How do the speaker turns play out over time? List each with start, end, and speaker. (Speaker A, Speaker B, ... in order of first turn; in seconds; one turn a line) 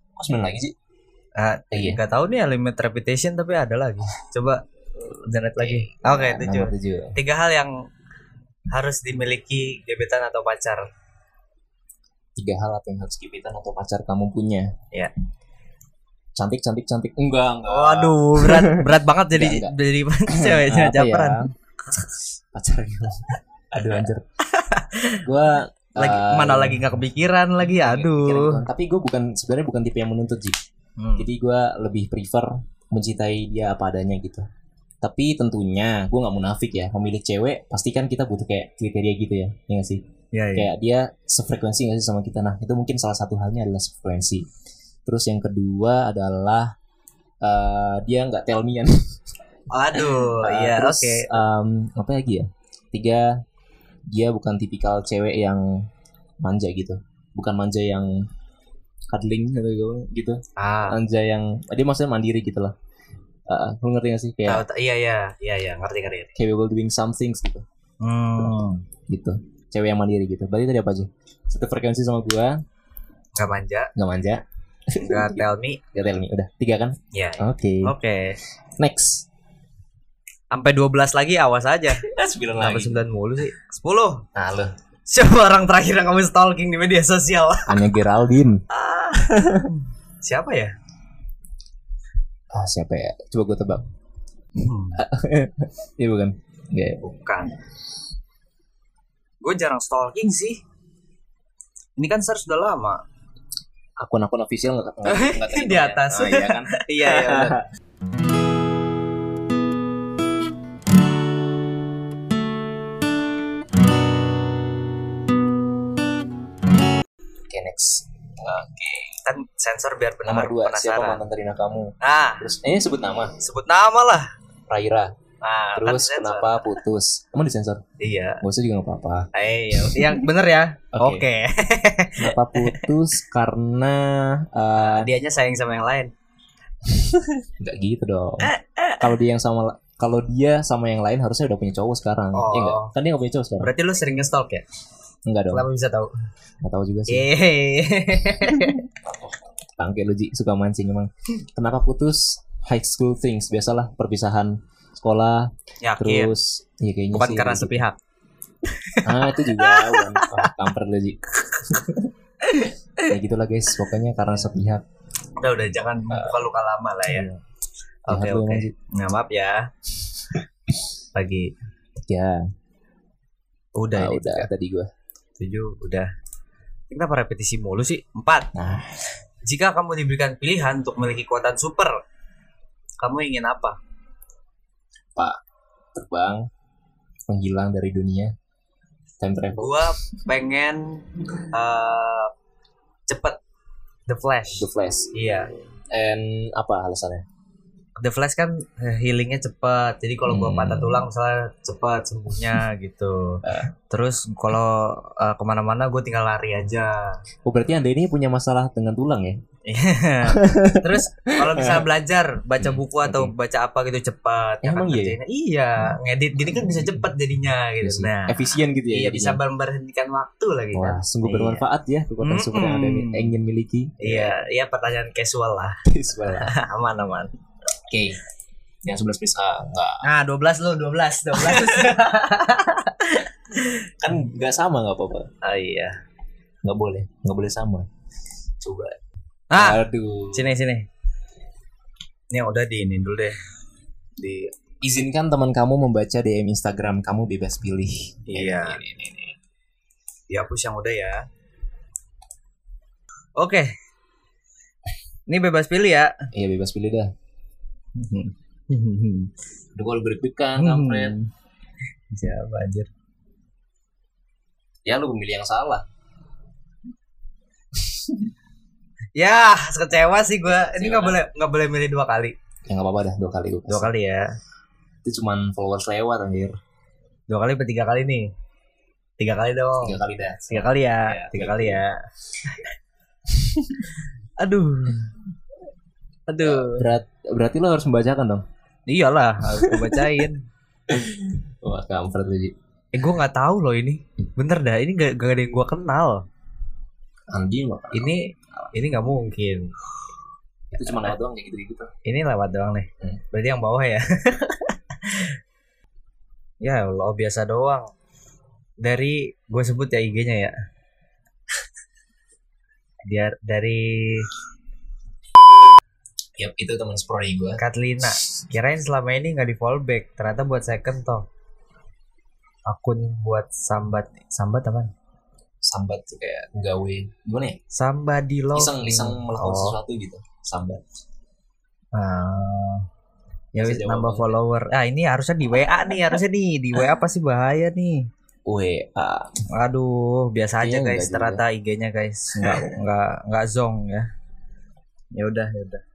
Speaker A: 0.2-0.7
Speaker B: 1.4-7.7
Speaker A: 1.7-2.0
Speaker A: 5.6-7.2
Speaker B: 8.7-10.8
Speaker A: 12.4-14.7
Speaker A: 16.4-19.8
Speaker B: 17.7-22.1
Speaker A: 20.3-21.4
Speaker A: 22.5-24.2
Speaker B: 23.8-25.3
Speaker A: 25.2-27.0
Speaker B: 25.9-28.6
Speaker A: 27.6-30.6
Speaker B: 31.0-31.3
Speaker A: 31.2-34.5
Speaker A: 35.0-40.0
Speaker B: 40.3-40.7
Speaker A: 40.5-44.5
Speaker A: 45.0-46.7
Speaker A: 47.4-48.9
Speaker B: 49.7-51.3
Speaker A: 49.9-53.3
Speaker A: 54.1-55.8
Speaker A: 56.4-58.2
Speaker A: 59.1-60.4
Speaker B: 60.6-61.0
Speaker A: 60.9-62.7
Speaker A: 63.5-64.6
Speaker B: 64.5-66.3
Speaker A: 66.4-67.6
Speaker B: 68.0-68.8
Speaker A: 68.4-72.6
Speaker B: 73.3-73.9
Speaker A: 74.0-77.9
Speaker B: 75.0-75.8
Speaker B: 77.1-78.4
Speaker A: 78.8-79.3
Speaker B: 80.5-82.0
Speaker A: 82.0-83.0
Speaker B: 82.6-84.2
Speaker A: 84.3-84.7
Speaker B: 85.1-87.9
Speaker A: 87.7-88.6
Speaker B: 88.7-90.7
Speaker A: 89.2-89.7
Speaker A: 92.5-93.8
Speaker B: 94.6-95.0
Speaker A: 95.0-97.0
Speaker B: 97.0-97.5
Speaker B: 99.4-100.6
Speaker B: 102.0-103.0
Speaker A: 104.0-107.6
Speaker B: 105.0-107.6
Speaker A: 117.5-119.1
Speaker B: 119.2-121.2
Speaker A: 120.2-123.3
Speaker B: 122.0-122.5
Speaker B: 123.4-124.2
Speaker A: 124.7-125.1
Speaker B: 125.4-126.7
Speaker A: 125.7-127.8
Speaker B: 128.0-128.4
Speaker A: 128.4-130.2
Speaker B: 129.3-132.9
Speaker A: 130.9-131.2
Speaker A: 132.2-135.1
Speaker B: 134.8-136.1
Speaker A: 136.8-143.7
Speaker B: 138.4-139.1
Speaker B: 142.3-142.9
Speaker B: 143.6-144.6
Speaker A: 145.3-145.7
Speaker B: 145.5-146.1
Speaker A: 146.6-147.3
Speaker B: 147.1-148.8
Speaker A: 148.3-148.7
Speaker A: 149.8-157.8
Speaker B: 155.8-156.3
Speaker B: 157.1-158.0
Speaker B: 158.7-160.6
Speaker A: 159.0-162.1
Speaker B: 162.4-163.1
Speaker A: 163.1-164.8
Speaker B: 164.3-164.6
Speaker B: 165.4-167.3
Speaker A: 166.1-166.4
Speaker A: 167.1-167.4
Speaker B: 168.1-169.7
Speaker A: 168.1-168.7
Speaker B: 171.1-171.5
Speaker A: 172.0-172.4
Speaker B: 173.8-174.5
Speaker A: 173.9-174.9
Speaker B: 175.4-176.1
Speaker B: 176.9-178.5
Speaker A: 178.5-179.0
Speaker B: 179.4-182.0
Speaker B: 183.0-183.8
Speaker A: 185.9-186.4
Speaker A: 187.3-188.3
Speaker A: 189.2-190.0
Speaker B: 189.6-192.3
Speaker B: 193.1-193.4
Speaker B: 194.1-195.5
Speaker A: 194.6-195.1
Speaker A: 195.9-197.2
Speaker B: 198.0-207.2
Speaker A: 200.2-201.1
Speaker A: 203.4-203.7
Speaker A: 207.4-209.4
Speaker B: 209.7-221.6
Speaker A: 210.2-211.8
Speaker A: 212.6-213.3
Speaker A: 214.6-215.2
Speaker A: 215.8-217.1
Speaker A: 217.8-219.4
Speaker A: 220.7-224.3
Speaker B: 222.2-223.3
Speaker B: 224.0-227.3
Speaker A: 225.8-226.5
Speaker A: 227.9-228.2
Speaker A: 228.8-230.0
Speaker B: 230.0-233.8
Speaker A: 231.3-231.9
Speaker A: 234.0-235.3
Speaker B: 235.4-235.9
Speaker A: 236.6-237.8
Speaker A: 238.6-238.9
Speaker B: 239.5-240.8
Speaker A: 239.5-240.5
Speaker B: 242.3-243.3
Speaker B: 244.2-244.5
Speaker A: 244.8-249.3
Speaker B: 248.3-248.8
Speaker B: 250.3-251.2
Speaker B: 253.4-253.7
Speaker B: 255.3-256.1
Speaker A: 256.3-257.1
Speaker B: 258.0-259.3
Speaker A: 259.7-261.2
Speaker B: 260.6-261.3
Speaker B: 262.1-262.9
Speaker A: 264.8-265.8
Speaker A: 267.8-268.3
Speaker B: 269.1-272.3
Speaker A: 270.4-271.2
Speaker A: 272.7-273.9
Speaker B: 273.7-274.3
Speaker A: 275.0-276.6
Speaker B: 277.3-278.3
Speaker B: 279.2-282.7
Speaker A: 279.8-281.8
Speaker A: 283.3-283.9
Speaker B: 284.4-285.1
Speaker B: 286.3-286.9
Speaker A: 286.4-288.4
Speaker B: 288.9-290.4
Speaker A: 289.5-290.3
Speaker A: 290.9-292.5
Speaker B: 292.9-296.2
Speaker A: 297.3-298.1
Speaker B: 297.9-299.7
Speaker A: 300.7-301.9
Speaker B: 300.8-301.1
Speaker B: 302.1-305.3
Speaker B: 306.6-307.9
Speaker B: 308.8-310.5
Speaker B: 313.1-314.3
Speaker A: 316.4-318.1
Speaker B: 317.6-321.2
Speaker B: 322.6-324.9
Speaker A: 325.6-327.6
Speaker B: 327.7-329.8
Speaker A: 328.5-330.8
Speaker B: 331.9-332.8
Speaker A: 333.5-334.4
Speaker B: 333.5-338.1
Speaker A: 335.6-336.2
Speaker A: 338.5-339.3
Speaker B: 339.5-344.1
Speaker A: 340.6-341.4
Speaker A: 342.3-342.7
Speaker B: 345.1-345.8